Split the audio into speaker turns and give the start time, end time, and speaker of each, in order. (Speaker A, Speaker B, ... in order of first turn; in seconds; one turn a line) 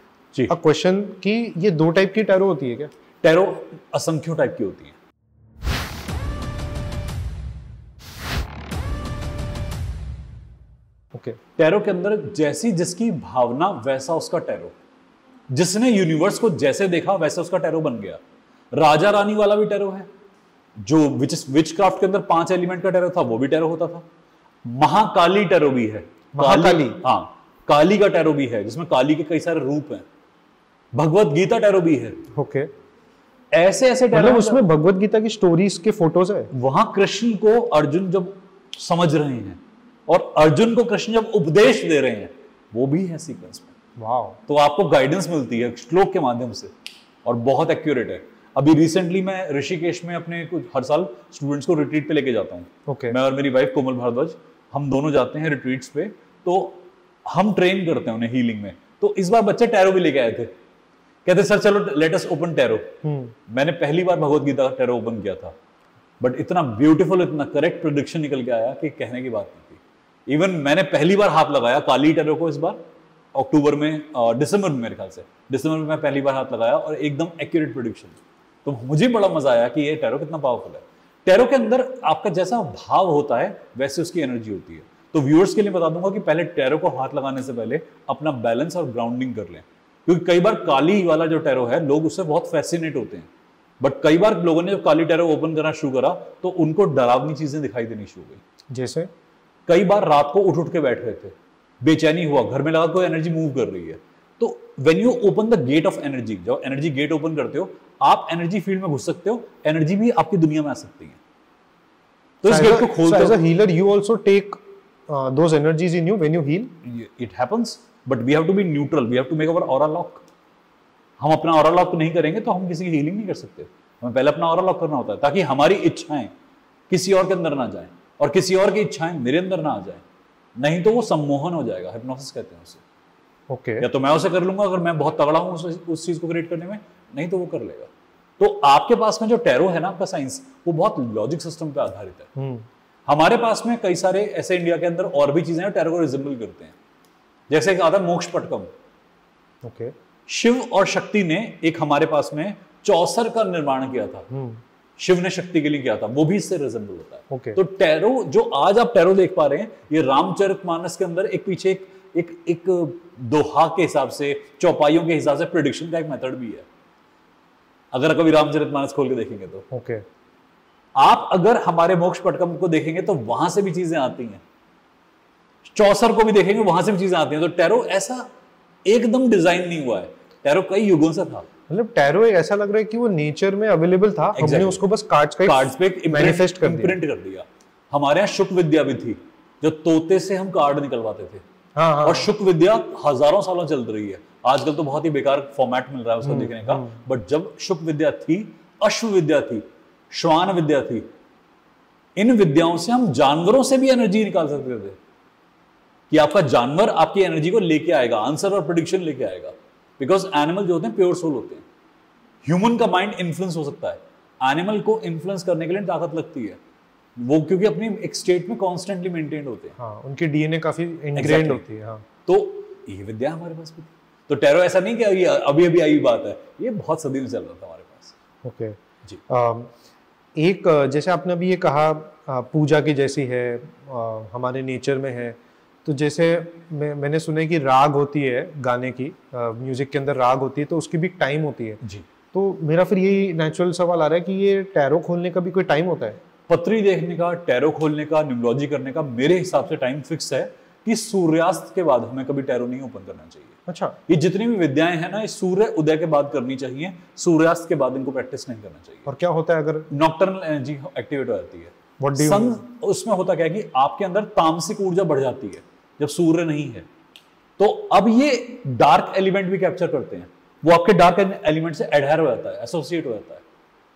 Speaker A: 0.5-2.9
Speaker B: 3.2-5.0
Speaker B: 11.6-14.8
Speaker B: 15.5-18.2
Speaker B: 18.7-20.1
Speaker B: 20.8-24.1
Speaker B: 24.6-30.1
Speaker A: 26.4-27.0
Speaker B: 30.9-32.2
Speaker A: 32.3-32.7
Speaker B: 33.5-34.6
Speaker A: 34.1-36.5
Speaker B: 36.5-43.7
Speaker A: 44.0-44.4
Speaker B: 44.5-46.7
Speaker B: 47.2-60.5
Speaker A: 52.9-53.2
Speaker B: 61.2-63.0
Speaker A: 63.0-63.4
Speaker B: 63.5-65.5
Speaker B: 66.2-72.8
Speaker B: 73.3-93.3
Speaker B: 93.8-98.4
Speaker A: 98.7-99.1
Speaker B: 99.7-111.2
Speaker B: 112.4-113.4
Speaker A: 112.5-114.6
Speaker A: 115.1-116.7
Speaker B: 116.8-120.2
Speaker B: 121.2-126.3
Speaker B: 126.9-130.0
Speaker B: 130.6-132.8
Speaker A: 133.5-133.9
Speaker B: 133.8-142.3
Speaker A: 142.4-142.7
Speaker B: 143.1-146.8
Speaker B: 147.5-148.7
Speaker A: 149.6-149.9
Speaker B: 150.3-154.3
Speaker A: 154.3-154.6
Speaker B: 155.0-166.7
Speaker A: 157.3-157.6
Speaker B: 167.9-169.7
Speaker A: 169.7-170.0
Speaker B: 171.0-174.4
Speaker B: 175.6-178.3
Speaker B: 178.9-181.5
Speaker A: 181.7-187.0
Speaker B: 184.4-184.8
Speaker B: 185.4-191.4
Speaker A: 191.8-192.3
Speaker B: 192.0-201.1
Speaker A: 196.2-197.0
Speaker B: 202.2-205.0
Speaker B: 206.1-211.6
Speaker B: 212.4-216.6
Speaker B: 217.2-219.7
Speaker A: 219.8-222.1
Speaker B: 221.2-221.6
Speaker B: 222.3-228.1
Speaker A: 228.4-228.8
Speaker A: 229.3-229.7
Speaker A: 230.4-241.8
Speaker A: 242.3-246.2
Speaker B: 246.5-253.5
Speaker A: 253.7-254.0
Speaker B: 254.1-259.1
Speaker A: 259.1-259.9
Speaker B: 259.9-266.9
Speaker A: 262.0-262.6
Speaker B: 267.6-273.4